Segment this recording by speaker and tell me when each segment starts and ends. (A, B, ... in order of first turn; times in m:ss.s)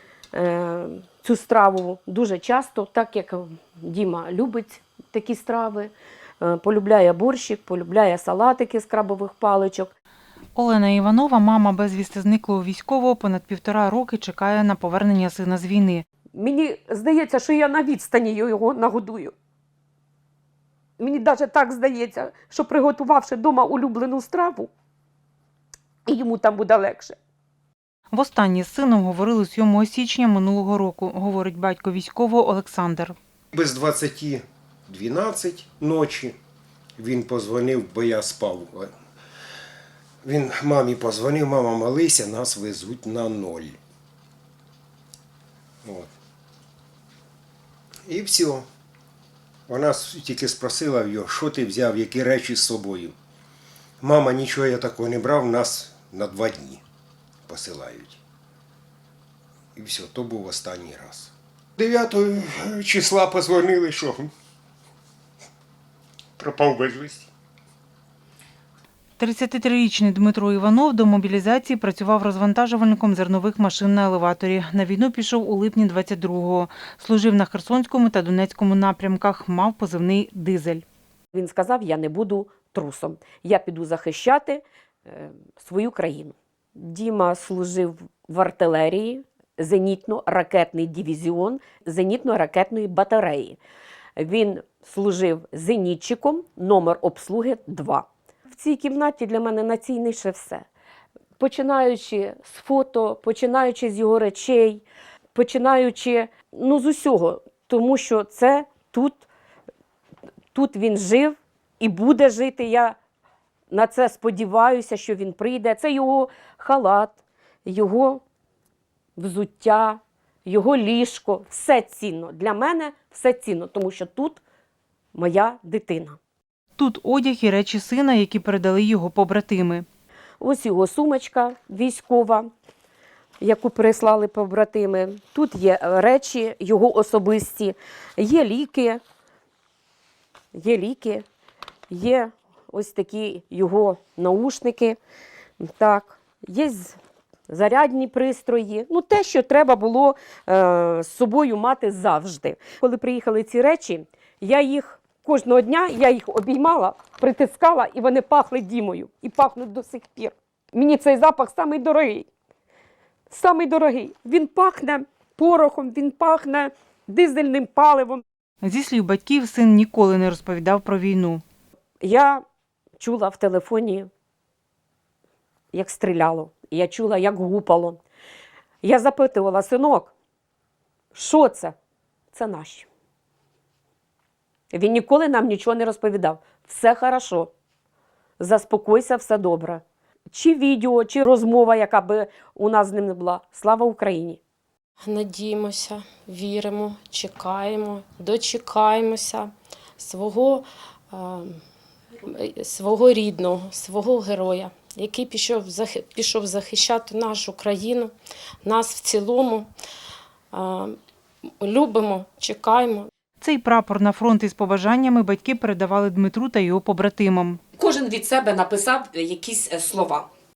0:00.3-0:09.9 A
0:10.5-0:16.0 B
0:16.3-0:19.3 A
0:21.0-0:24.7 A
0:26.0-0:27.2 A
0:28.1-0:33.1 B
0:33.5-0:36.4 C
0:37.0-0:38.9 C
0:40.2-0:43.8 C
0:48.0-0:48.6 C
0:49.7-0:53.1 C
0:54.0-0:56.8 C
0:57.5-0:58.2 C
0:59.7-1:04.3 C
1:06.4-1:07.3 C
1:09.2-1:20.8 B
1:21.3-1:33.6 A
1:34.2-1:40.6 A
1:41.4-1:49.2 A
1:50.5-1:53.0 A
1:53.7-1:58.2 A
1:59.2-2:04.4 A
2:05.1-2:06.2 A
2:06.8-2:09.8 B
2:10.4-2:12.5 A
2:13.4-2:19.0 A
2:20.5-2:21.2 A
2:21.9-2:25.0 A
2:25.6-2:27.0 A
2:27.5-2:42.3 A
2:43.3-2:48.2 A
2:48.6-2:51.4 B
2:52.0-2:52.4 A
2:53.0-2:54.1 A
2:55.7-2:58.0 A
2:58.8-3:00.1 A
3:01.1-3:01.7 A
3:02.3-3:02.9 A
3:04.7-3:07.5 A
3:08.4-3:14.4 A
3:15.0-3:21.6 D
3:22.2-3:28.1 D
3:28.6-3:29.7 D
3:30.5-3:30.9 D
3:31.5-3:33.1 D
3:33.4-3:37.6 B
3:37.8-3:40.3 A